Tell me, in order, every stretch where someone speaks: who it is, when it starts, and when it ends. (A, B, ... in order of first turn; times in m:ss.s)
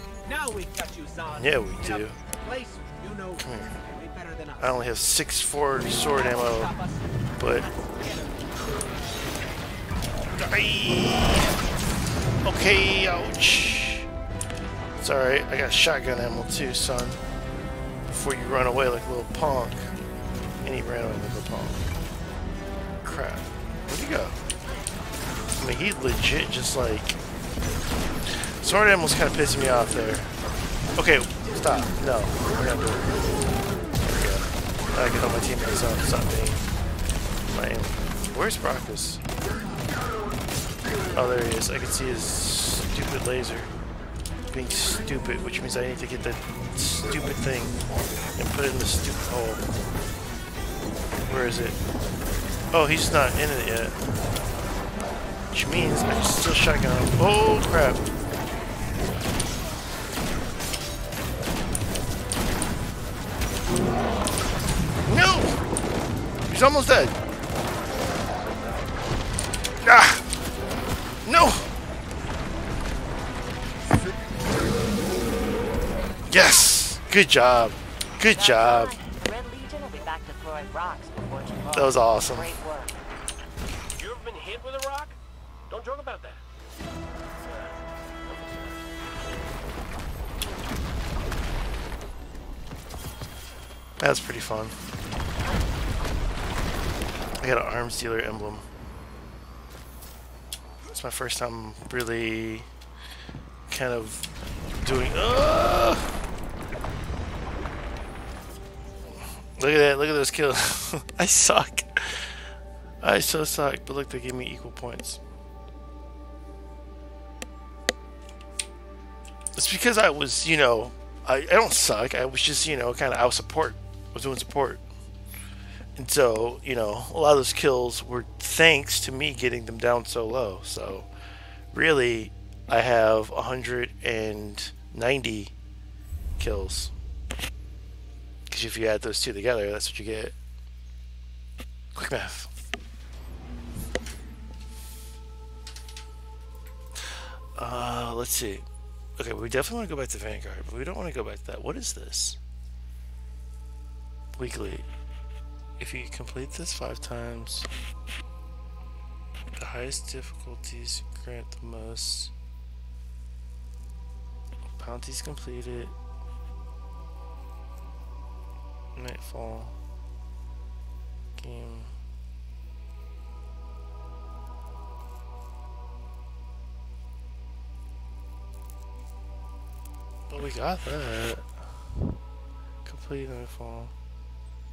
0:00.2-0:04.9 A
0:01.3-0:02.2 B
0:03.4-0:03.8 B
0:04.6-0:06.7 B
0:06.0-0:08.9 A
0:07.4-0:07.7 B
0:10.4-0:11.5 B
0:12.4-0:14.1 B
0:15.0-0:17.2 B
0:18.1-0:19.9 B
0:20.6-0:21.8 B
0:23.0-0:24.4 B
0:25.6-0:27.2 B
0:28.3-0:30.3 B
0:31.0-0:33.4 B
0:34.0-0:36.6 B
0:37.5-0:39.2 B
0:41.1-0:43.7 B
0:44.5-0:47.8 B
0:48.4-0:49.7 B
0:51.3-0:51.8 B
0:52.7-0:54.0 B
0:55.5-0:58.1 B
1:05.1-1:05.6 B
1:06.5-1:07.1 B
1:09.8-1:10.2 B
1:11.2-1:11.6 B
1:16.3-1:19.0 B
1:18.3-1:23.0 C
1:21.7-1:22.5 B
1:24.0-1:25.2 D
1:25.7-1:26.4 D
1:27.4-1:28.8 D
1:34.0-1:34.8 B
1:37.4-1:38.7 B
1:40.9-1:42.7 B
1:43.7-1:44.3 B
1:44.8-1:46.1 B
1:49.6-1:52.3 B
1:53.0-1:55.2 B
1:59.6-2:04.8 B
2:06.0-2:11.1 B
2:11.7-2:15.5 B
2:16.4-2:16.9 B
2:18.5-2:20.4 B
2:22.0-2:22.5 B
2:27.0-2:28.6 B
2:29.2-2:32.4 B
2:34.4-2:34.9 B
2:35.8-2:37.7 B
2:39.6-2:42.3 B
2:44.8-2:45.9 B
2:49.0-2:49.8 B
2:51.4-2:51.9 B
3:00.3-3:01.6 B
3:02.8-3:03.9 B